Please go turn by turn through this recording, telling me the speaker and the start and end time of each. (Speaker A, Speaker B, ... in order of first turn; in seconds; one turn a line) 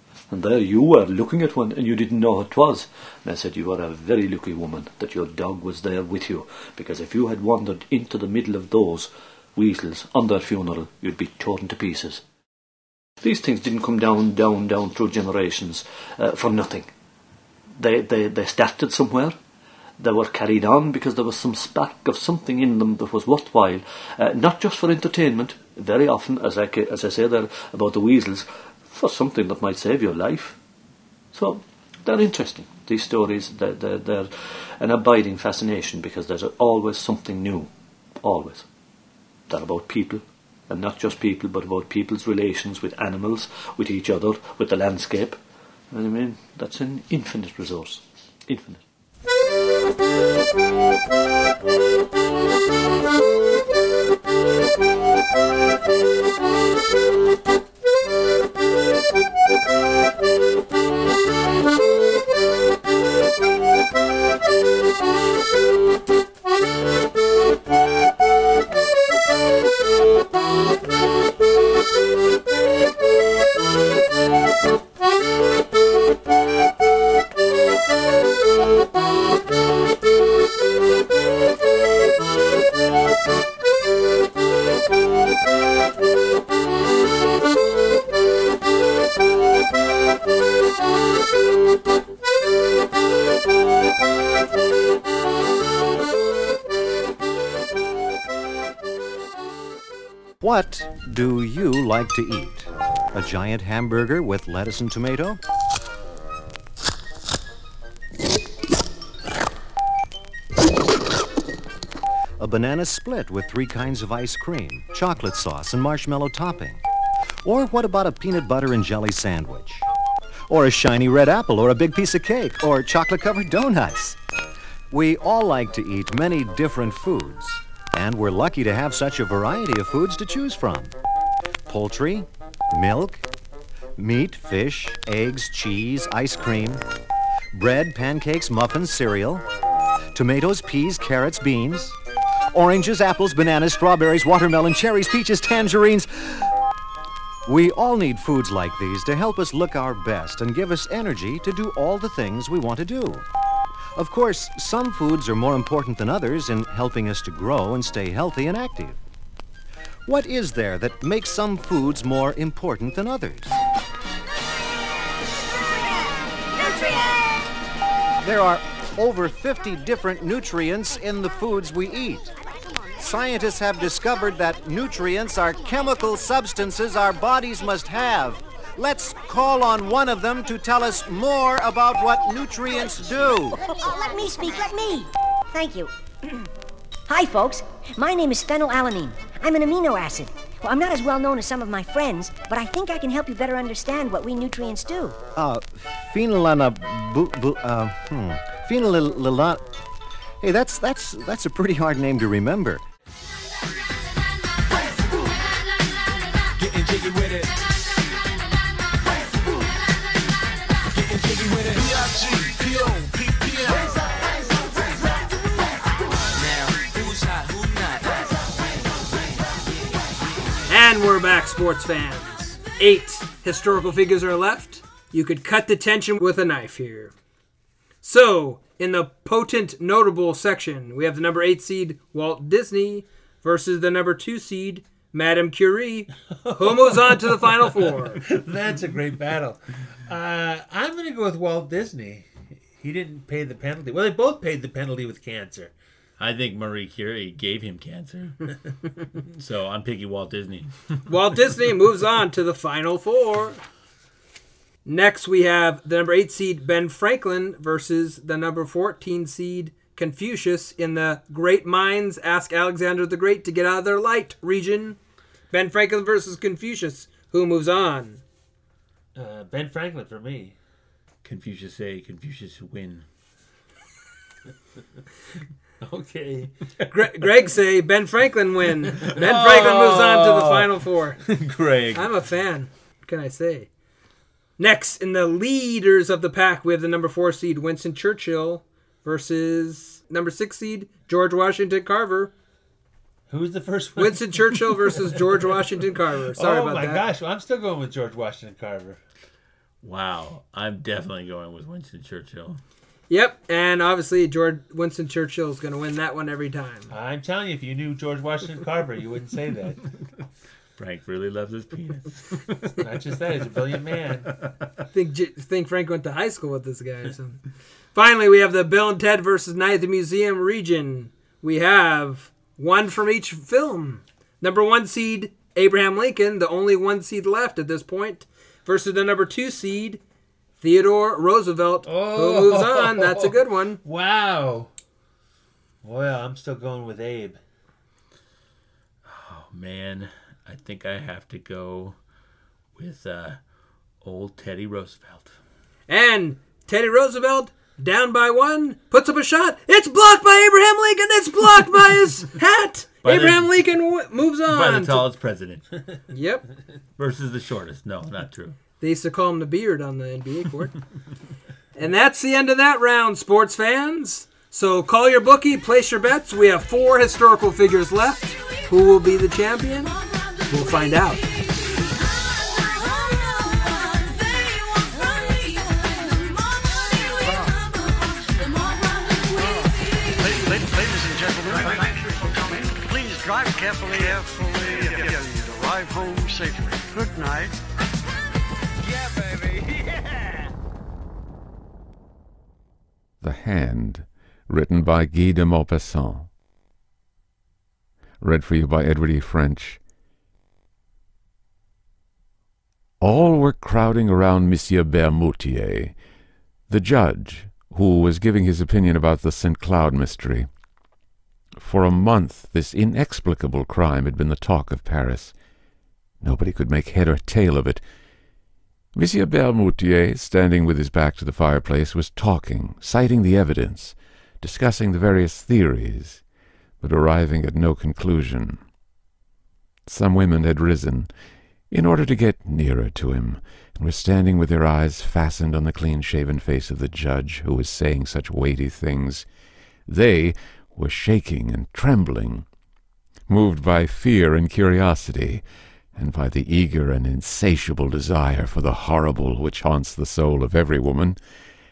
Speaker A: 0.3-12.2
Speaker A: 13.2-16.9
Speaker A: 17.8-19.4
Speaker A: 20.0-30.6
Speaker A: 31.3-37.7
Speaker A: 38.2-38.6
Speaker A: 39.5-45.4
Speaker A: 45.9-48.8
Speaker B: 100.4-105.4
Speaker B: 112.4-116.8
Speaker B: 117.4-119.9
Speaker B: 120.5-124.2
Speaker B: 124.9-130.9
Speaker B: 131.7-133.3
Speaker B: 134.0-136.8
Speaker B: 137.5-139.4
Speaker B: 140.1-142.0
Speaker B: 142.5-146.5
Speaker B: 147.4-153.2
Speaker B: 153.9-159.0
Speaker B: 160.1-163.6
Speaker B: 168.2-172.3
Speaker B: 173.0-183.5
Speaker C: 183.7-185.9
Speaker C: 187.1-195.1
Speaker B: 195.3-199.6
Speaker B: 200.4-202.8
Speaker D: 204.8-205.3
Speaker D: 206.6-207.6
Speaker D: 210.9-215.2
Speaker D: 216.1-219.6
Speaker E: 220.7-227.1
Speaker E: 228.0-238.2
Speaker F: 236.4-245.7
Speaker G: 246.2-248.4
Speaker G: 249.4-250.8
Speaker E: 251.1-253.6
Speaker E: 254.8-265.0
Speaker E: 265.5-268.2
Speaker F: 269.1-270.6
Speaker G: 271.2-273.0
Speaker F: 275.8-276.5
Speaker E: 276.9-281.2
Speaker F: 279.1-279.8
Speaker G: 279.1-280.7
Speaker G: 281.3-282.1
Speaker E: 281.9-283.7
Speaker E: 284.6-292.3
Speaker F: 293.3-295.6
Speaker E: 294.0-297.0
Speaker F: 296.3-299.0
Speaker G: 299.8-302.6
Speaker E: 303.1-306.9
Speaker F: 306.9-309.8
Speaker G: 310.8-312.8
Speaker F: 312.8-314.3
Speaker E: 314.9-317.4
Speaker E: 317.9-330.0
Speaker E: 330.6-333.8
Speaker F: 331.8-334.7
Speaker F: 335.8-337.4
Speaker G: 339.1-341.9
Speaker G: 342.8-343.4
Speaker G: 344.0-345.4
Speaker E: 345.9-355.0
Speaker G: 353.0-353.6
Speaker G: 354.5-355.6
Speaker E: 356.1-356.4
Speaker G: 357.0-358.6
Speaker E: 358.8-360.7
Speaker E: 361.8-369.9
Speaker E: 370.5-371.2
Speaker D: 381.5-382.2
Speaker D: 383.9-385.2
Speaker D: 388.9-389.5
Speaker H: 393.2-396.3
Speaker H: 398.2-399.8
Speaker H: 403.0-405.9
Speaker H: 406.7-410.5
Speaker H: 411.6-415.3
Speaker H: 416.2-417.8
Speaker H: 418.9-426.2
Speaker H: 426.8-428.6
Speaker H: 429.9-431.1
Speaker H: 431.7-439.2
Speaker H: 439.9-442.4
Speaker H: 443.3-445.4
Speaker H: 445.9-451.2